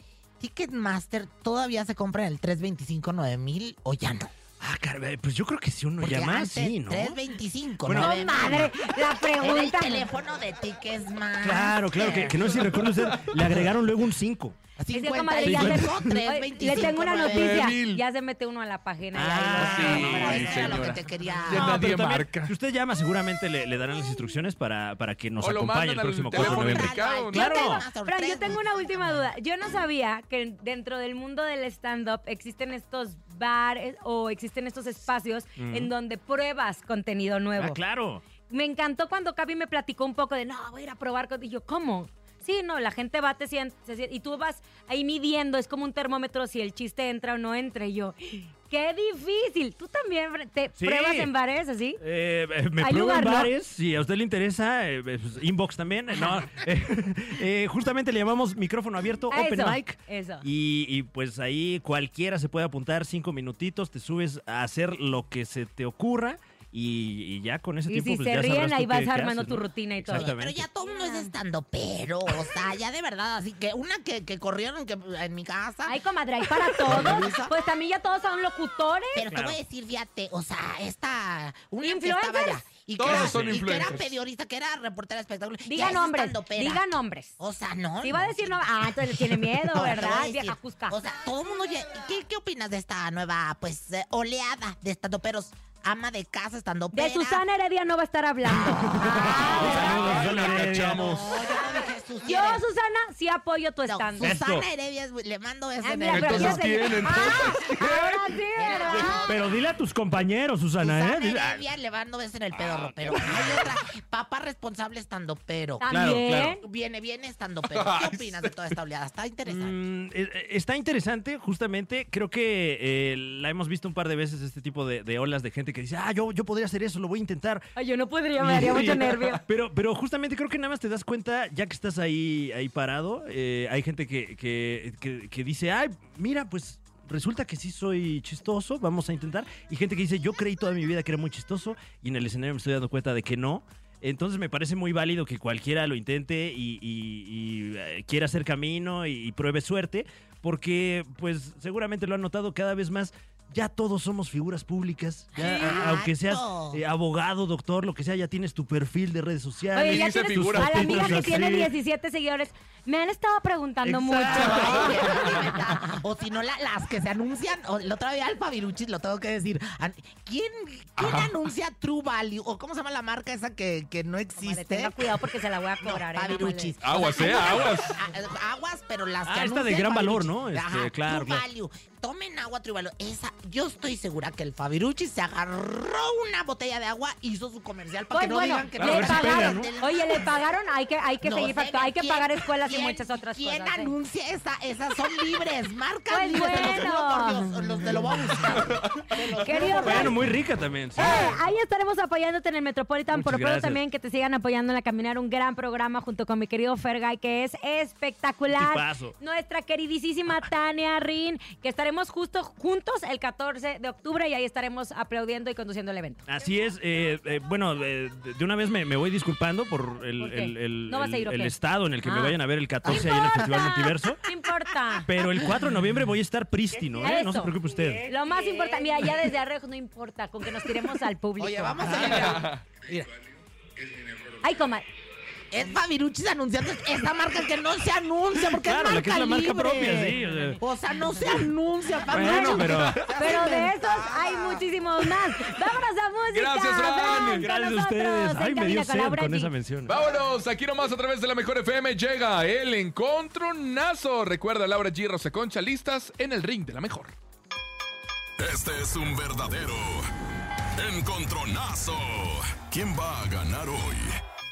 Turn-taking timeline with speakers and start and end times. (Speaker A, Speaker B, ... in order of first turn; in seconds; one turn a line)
Speaker A: 0.4-4.3
Speaker B: 4.6-7.2
Speaker A: 6.0-8.8
Speaker B: 7.8-8.7
Speaker C: 8.0-10.1
Speaker A: 9.4-13.6
Speaker B: 11.4-14.6
Speaker A: 14.8-17.7
Speaker C: 14.9-20.7
Speaker B: 15.4-16.1
Speaker D: 17.2-18.0
Speaker B: 19.1-20.8
Speaker A: 19.4-21.8
Speaker D: 19.6-22.5
Speaker B: 21.5-27.8
Speaker D: 25.4-27.5
Speaker A: 26.3-29.2
Speaker C: 27.3-37.8
Speaker B: 35.6-35.9
Speaker B: 37.5-38.2
Speaker C: 38.5-52.0
Speaker B: 50.8-51.3
Speaker B: 52.0-70.6
Speaker C: 52.8-53.5
Speaker C: 59.3-60.4
Speaker C: 67.9-71.3
Speaker A: 70.1-76.0
Speaker C: 75.9-79.2
Speaker A: 76.7-77.5
Speaker A: 79.1-86.8
Speaker B: 79.3-79.6
Speaker C: 81.8-82.6
Speaker D: 83.0-84.0
Speaker C: 85.7-87.3
Speaker A: 87.4-97.4
Speaker C: 88.0-91.0
Speaker C: 96.9-100.2
Speaker B: 98.6-101.2
Speaker A: 98.6-102.6
Speaker D: 99.4-101.2
Speaker C: 101.5-104.4
Speaker A: 103.8-107.5
Speaker B: 104.2-104.6
Speaker C: 105.8-109.2
Speaker D: 106.1-108.2
Speaker A: 108.5-109.5
Speaker B: 109.2-111.6
Speaker A: 110.8-115.9
Speaker C: 115.8-116.6
Speaker B: 115.8-116.5
Speaker A: 116.6-119.8
Speaker D: 117.7-118.5
Speaker B: 119.5-127.7
Speaker C: 127.8-129.4
Speaker B: 128.4-161.7
Speaker A: 155.3-156.8
Speaker C: 155.4-155.9
Speaker C: 159.7-165.6
Speaker D: 159.8-161.3
Speaker A: 164.2-174.9
Speaker D: 164.2-165.3
Speaker D: 171.0-171.3
Speaker C: 174.4-176.7
Speaker A: 175.8-190.4
Speaker D: 176.8-177.9
Speaker B: 179.2-181.4
Speaker C: 188.1-193.9
Speaker B: 188.8-189.7
Speaker A: 191.2-200.3
Speaker C: 196.1-197.5
Speaker C: 199.3-200.2
Speaker B: 199.8-201.3
Speaker C: 200.9-216.2
Speaker B: 203.1-203.8
Speaker B: 208.5-209.1
Speaker B: 216.3-224.2
Speaker C: 220.2-225.3
Speaker A: 222.9-223.7
Speaker B: 225.0-228.1
Speaker C: 227.0-232.4
Speaker A: 231.4-232.5
Speaker D: 232.2-232.6
Speaker C: 234.4-234.8
Speaker A: 235.5-244.7
Speaker B: 238.4-240.6
Speaker B: 242.1-243.0
Speaker C: 242.1-249.5
Speaker D: 246.3-247.5
Speaker B: 247.4-249.9
Speaker D: 249.9-257.1
Speaker E: 258.4-260.1
Speaker E: 260.8-264.1